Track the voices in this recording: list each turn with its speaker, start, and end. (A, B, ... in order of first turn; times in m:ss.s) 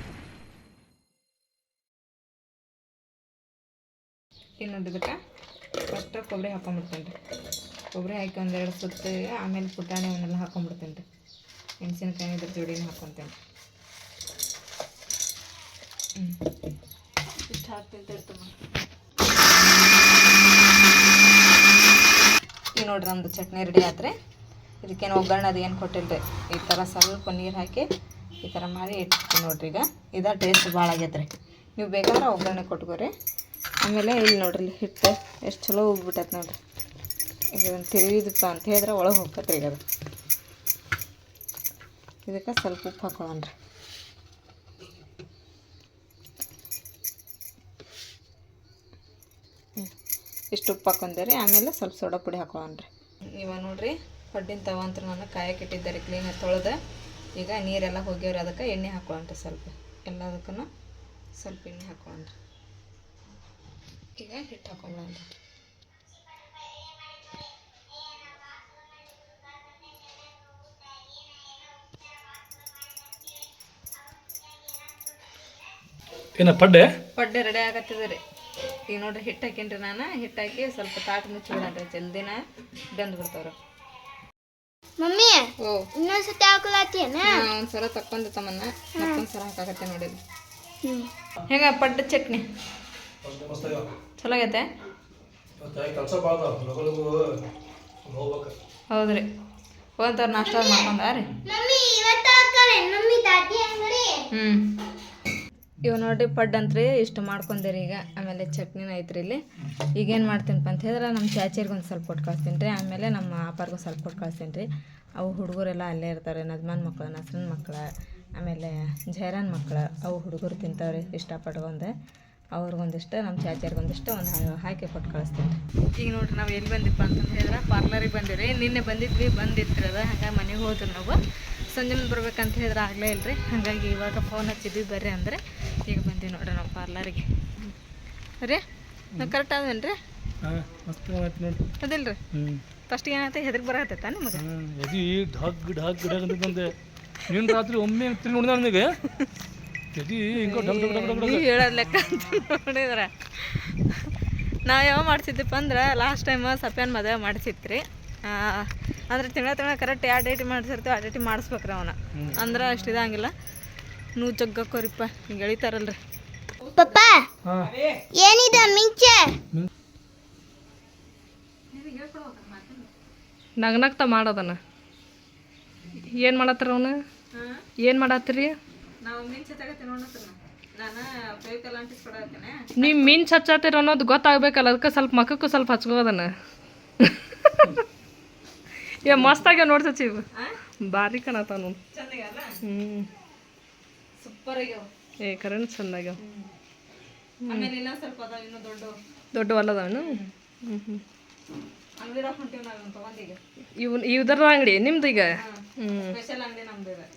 0:04.6-0:05.2 A
0:05.9-0:07.1 A
0:07.9-0:11.0 A
0:11.8-0:13.3 A
0:17.5-0:18.5 A
0:22.8-0:24.1 A
0:24.8-0:27.8 A
0:28.4-0:33.1 A
0:33.8-0:36.6 A
0:37.5-0:39.8 A
0:42.2-0:43.5 A
0:50.5-0:56.8 A
0:57.4-1:00.7 A
1:01.4-1:02.3 A
1:04.2-1:05.2 A
1:16.4-1:16.9 B
1:17.1-1:18.2 A
1:18.9-1:22.4 A
1:22.9-1:23.5 A
1:25.0-1:27.4 C
1:25.6-1:25.9 A
1:27.2-1:30.2 A
1:30.8-1:31.1 C
1:31.5-1:32.4 A
1:33.2-1:33.9 B
1:34.2-1:34.7 A
1:35.6-1:37.2 B
1:38.0-1:38.5 B
1:38.9-1:39.2 A
1:40.0-1:41.3 A
1:41.4-1:44.2 C
1:44.3-1:44.8 A
1:45.8-1:49.4 A
1:50.0-1:54.7 A
1:55.2-2:01.9 A
2:02.5-2:11.2 A
2:11.7-2:17.7 A
2:19.2-2:20.0 A
2:20.4-2:21.6 B
2:21.8-2:22.2 A
2:22.3-2:22.6 B
2:22.9-2:24.4 A
2:24.4-2:26.7 B
2:27.3-2:28.9 B
2:29.9-2:31.5 B
2:30.3-2:34.1 A
2:34.7-2:43.3 A
2:42.1-2:42.4 B
2:44.2-2:46.0 A
2:46.7-2:47.3 C
2:47.4-2:47.7 B
2:48.1-2:49.3 C
2:51.7-2:52.9 A
2:53.6-2:54.6 D
2:56.0-2:57.0 D
2:57.3-2:57.6 A
2:57.8-2:58.6 D
2:59.0-3:03.1 A
3:02.8-3:06.3 D
3:07.0-3:07.8 D
3:09.0-3:10.2 D
3:09.1-3:09.4 A
3:10.8-3:11.8 D
3:11.9-3:12.6 A
3:12.6-3:13.1 D
3:14.2-3:14.9 A
3:15.2-3:16.2 D
3:16.2-3:16.5 A
3:17.4-3:17.7 D
3:17.5-3:19.0 A
3:19.3-3:21.0 D
3:19.9-3:20.3 A
3:22.0-3:23.4 A
3:23.8-3:26.2 D
3:25.2-3:27.1 A